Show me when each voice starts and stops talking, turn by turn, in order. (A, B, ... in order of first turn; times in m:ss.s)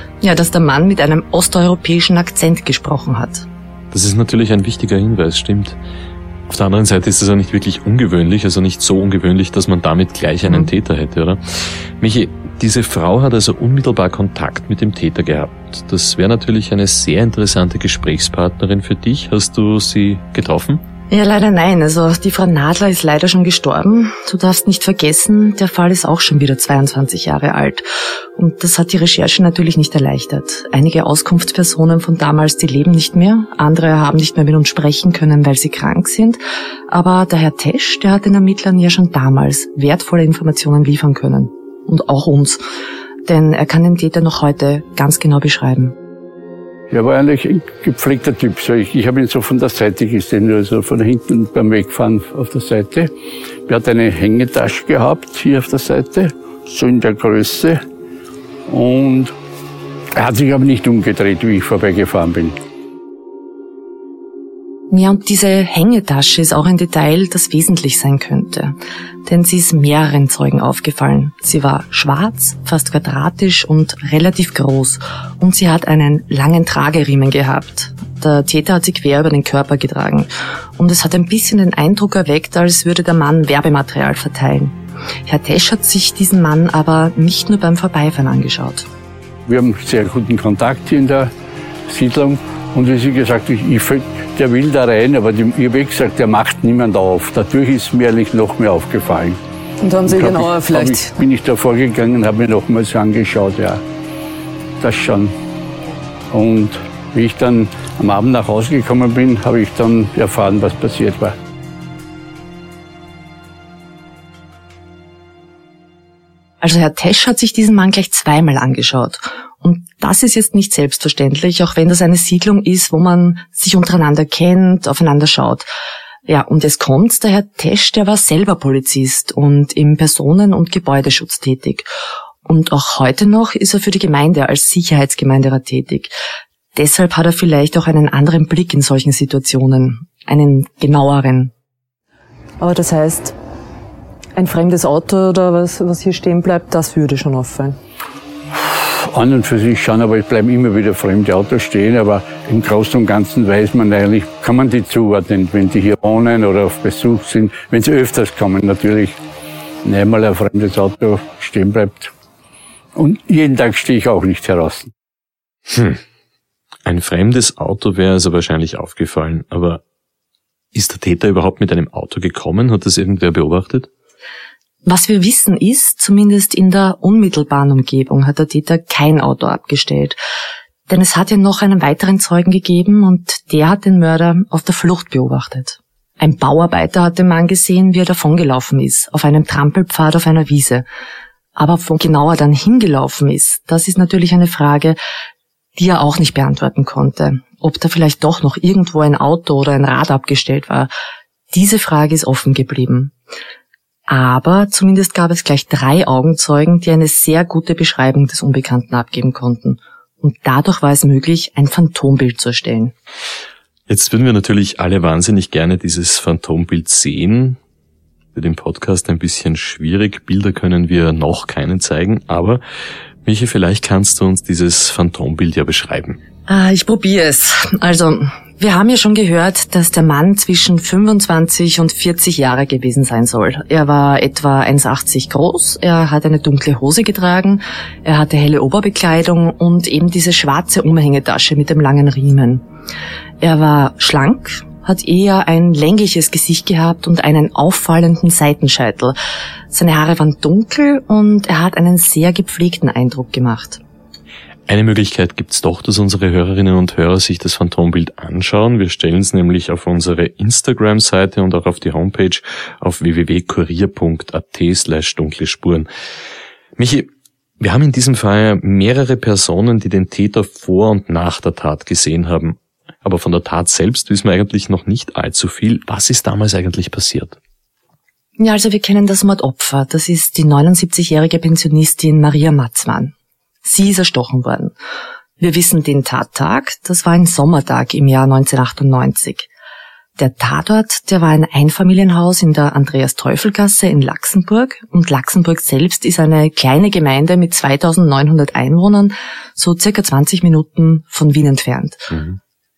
0:00.2-0:03.5 A
0:03.9-0:05.8 B
0:06.5-0:20.8 B
0:21.1-0:42.6 A
0:43.3-0:46.0 A
0:46.9-0:53.1 C
0:53.7-0:57.8 C
0:58.7-0:59.3 C
1:00.2-1:02.6 C
1:04.9-1:28.9 A
1:29.5-1:31.3 C
1:31.9-1:39.4 C
1:39.8-1:41.1 D
1:40.0-1:43.8 C
1:44.8-1:45.3 C
1:46.3-1:51.4 C
1:56.6-2:05.7 A
2:06.3-2:11.9 A
2:12.4-2:16.1 A
2:16.8-2:21.5 A
2:22.6-2:23.4 D
2:24.4-2:27.8 D
2:28.5-2:39.2 C
2:39.8-2:42.1 C
2:43.0-2:44.9 C
2:45.7-2:46.0 B
2:46.8-2:49.8 B
2:50.7-2:53.9 B
2:54.9-3:00.2 A
3:00.9-3:10.9 A
3:11.6-3:15.0 A
3:15.8-3:20.9 A
3:21.5-3:23.1 A
3:24.1-3:32.9 A
3:33.9-3:37.6 B
3:38.3-3:42.6 B
3:43.2-3:46.2 B
3:46.5-4:02.6 A
4:03.4-4:09.2 A
4:09.7-4:13.8 A
4:14.7-4:25.9 B
4:26.8-4:37.4 B
4:38.4-4:44.7 A
4:45.4-4:49.5 A
4:50.2-5:02.1 A
5:02.1-5:02.4 B